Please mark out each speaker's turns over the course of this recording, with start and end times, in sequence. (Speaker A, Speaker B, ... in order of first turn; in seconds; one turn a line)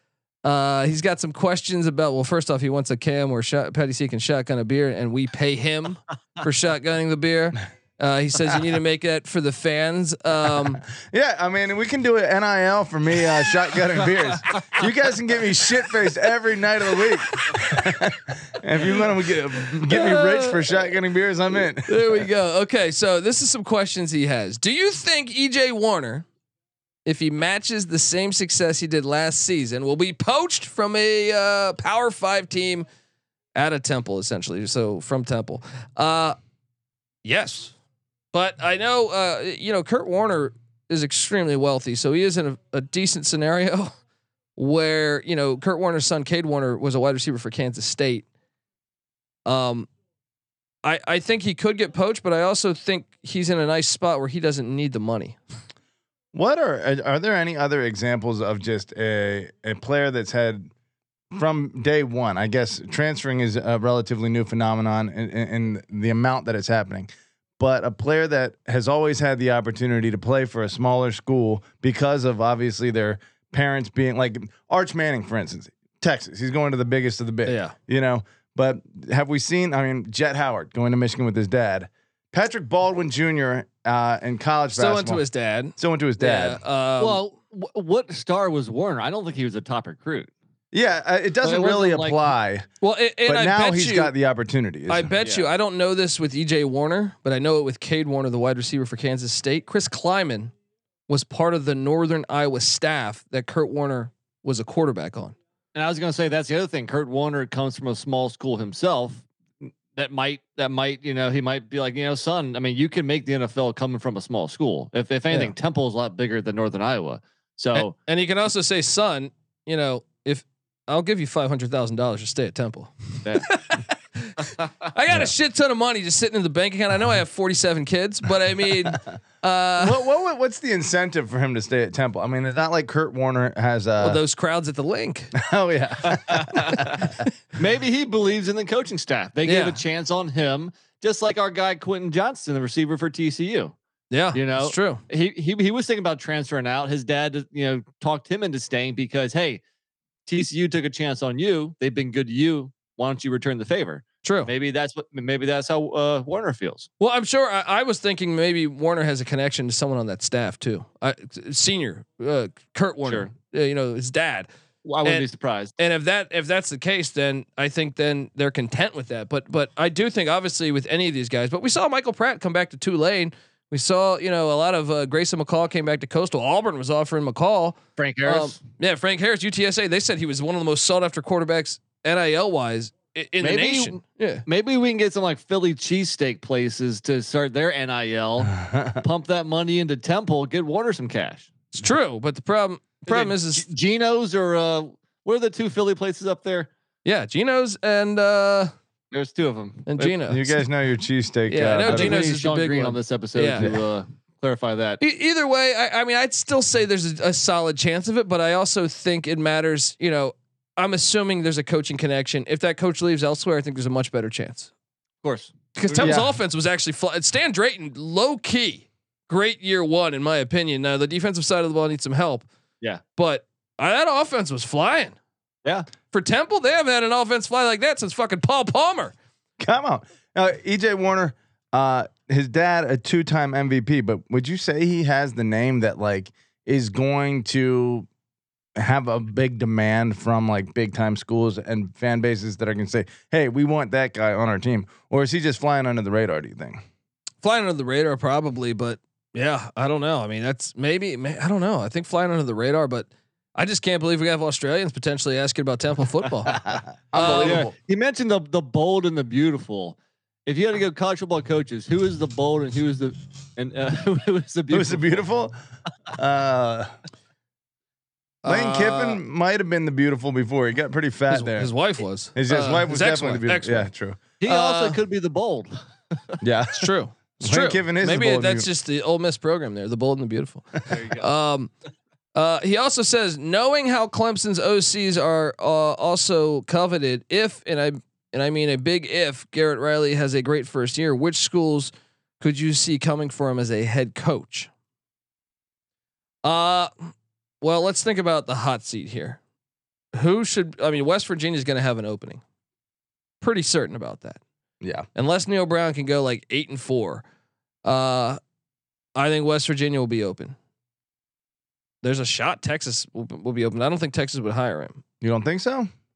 Speaker A: 0.4-10.8
Speaker B: 11.0-22.3
Speaker A: 19.9-20.9
Speaker A: 21.5-26.3
Speaker A: 27.1-32.9
Speaker A: 33.5-36.4
Speaker A: 37.2-37.7
Speaker A: 38.3-44.0
Speaker A: 44.6-48.2
Speaker A: 49.5-49.9
Speaker A: 50.8-55.4
Speaker B: 56.3-60.7
Speaker B: 61.3-85.2
Speaker A: 77.5-77.7
Speaker A: 84.7-87.2
Speaker B: 85.8-86.6
Speaker C: 87.0-90.3
Speaker B: 90.7-92.7
Speaker C: 91.4-92.3
Speaker A: 92.8-94.1
Speaker B: 93.2-95.1
Speaker A: 94.9-100.5
Speaker C: 95.2-95.5
Speaker A: 101.1-105.3
Speaker C: 105.8-117.9
Speaker A: 117.7-130.0
Speaker B: 129.8-134.2
Speaker A: 134.0-135.3
Speaker B: 135.3-137.1
Speaker C: 136.1-137.0
Speaker C: 137.6-143.8
Speaker A: 139.4-139.8
Speaker A: 144.1-145.0
Speaker C: 144.3-149.6
Speaker C: 150.3-156.9
Speaker A: 154.2-154.5
Speaker A: 157.0-164.5
Speaker C: 163.1-163.3
Speaker C: 164.8-165.7
Speaker A: 165.8-184.4
Speaker C: 178.0-178.6
Speaker C: 183.4-191.5
Speaker B: 188.6-189.0
Speaker A: 191.7-193.7
Speaker C: 193.1-196.7
Speaker A: 197.1-198.7
Speaker C: 199.1-200.0
Speaker A: 199.9-200.6
Speaker B: 200.0-202.2
Speaker A: 201.5-203.7
Speaker C: 201.9-205.0
Speaker A: 205.0-214.7
Speaker C: 215.2-216.2
Speaker A: 215.8-222.5
Speaker B: 216.0-216.3
Speaker A: 223.2-225.2
Speaker A: 226.1-229.1
Speaker B: 229.6-238.1
Speaker B: 238.8-246.8
Speaker A: 247.4-256.6
Speaker B: 256.5-257.7
Speaker A: 257.1-257.6
Speaker C: 257.2-265.2
Speaker B: 264.7-265.5
Speaker B: 266.1-266.9
Speaker A: 268.4-269.2
Speaker B: 268.4-271.7
Speaker A: 271.3-273.9
Speaker B: 272.4-274.2
Speaker C: 274.4-275.7
Speaker A: 274.4-275.0
Speaker B: 276.4-278.7
Speaker A: 276.7-281.7
Speaker C: 280.9-281.3
Speaker A: 282.4-294.7
Speaker A: 296.4-299.4
Speaker A: 300.1-302.4
Speaker A: 303.4-304.4
Speaker A: 305.1-307.2
Speaker A: 307.9-308.4
Speaker A: 309.2-310.6
Speaker A: 312.0-315.0
Speaker B: 315.2-315.9